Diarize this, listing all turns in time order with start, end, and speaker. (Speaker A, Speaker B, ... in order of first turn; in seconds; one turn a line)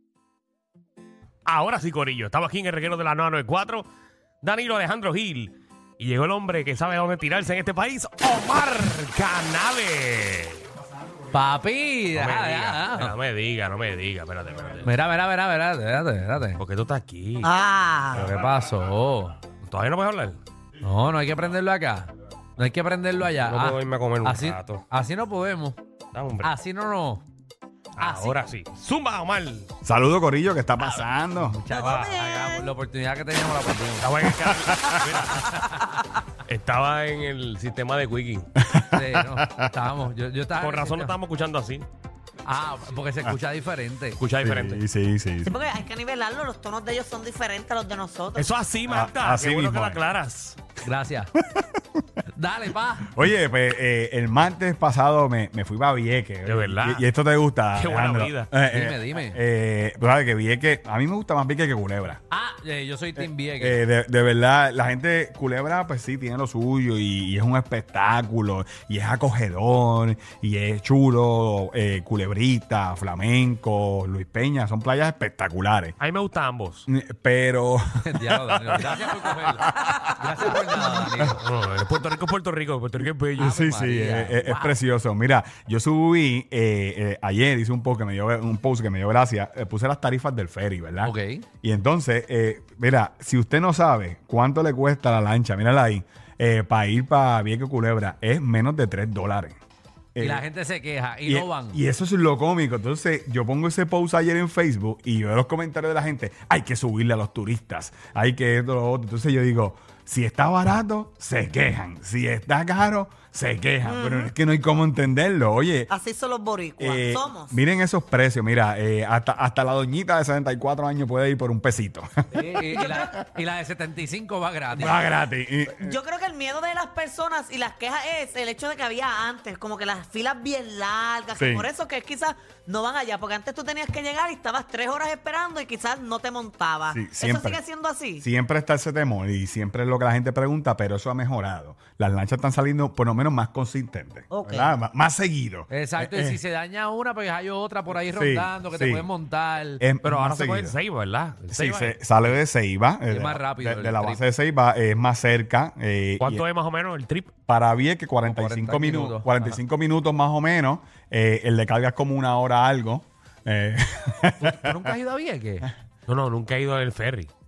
Speaker A: 1.5-3.9
Speaker A: 4.4-10.7
Speaker B: 11.3-13.1
Speaker A: 12.1-14.9
Speaker B: 14.8-16.6
Speaker A: 16.6-17.5
Speaker C: 17.4-18.3
Speaker B: 18.1-19.4
Speaker A: 19.6-20.4
Speaker B: 20.8-25.8
Speaker A: 23.5-24.8
Speaker A: 26.1-26.5
Speaker B: 26.4-27.2
Speaker A: 28.0-29.7
Speaker B: 28.0-28.4
Speaker D: 29.8-31.6
Speaker B: 31.4-34.1
Speaker C: 31.7-32.7
Speaker A: 34.0-35.7
Speaker D: 34.4-35.3
Speaker B: 35.4-35.7
Speaker A: 36.5-38.5
Speaker D: 38.6-39.7
Speaker B: 38.9-41.1
Speaker A: 40.6-41.9
Speaker B: 42.5-44.2
Speaker A: 44.2-44.8
Speaker D: 44.4-45.6
Speaker C: 45.5-48.5
Speaker A: 48.3-50.6
Speaker D: 48.9-50.0
Speaker B: 50.8-51.3
Speaker D: 51.4-51.8
Speaker B: 52.3-53.1
Speaker D: 53.1-62.2
Speaker A: 56.5-57.1
Speaker A: 57.8-58.5
Speaker B: 58.7-59.4
Speaker B: 62.3-63.8
Speaker D: 63.2-76.0
Speaker A: 76.0-76.9
Speaker D: 76.9-80.0
Speaker B: 78.0-81.4
Speaker A: 81.3-83.5
Speaker D: 83.4-99.6
Speaker B: 83.4-84.8
Speaker B: 91.0-91.5
Speaker D: 100.2-100.5
Speaker B: 100.2-101.8
Speaker D: 101.3-115.9
Speaker C: 113.8-114.3
Speaker C: 115.9-117.6
Speaker D: 116.8-123.0
Speaker B: 122.3-125.0
Speaker C: 122.8-123.2
Speaker D: 124.8-125.9
Speaker C: 125.8-138.2
Speaker D: 131.4-131.7
Speaker D: 136.9-137.6
Speaker D: 138.2-146.4
Speaker C: 144.3-144.7
Speaker B: 145.7-149.8
Speaker D: 148.1-149.1
Speaker D: 149.8-150.8
Speaker A: 150.0-152.0
Speaker D: 151.5-156.4
Speaker B: 153.1-154.2
Speaker A: 156.2-157.3
Speaker D: 157.5-164.9
Speaker B: 158.2-159.6
Speaker B: 164.4-165.7
Speaker A: 166.1-167.3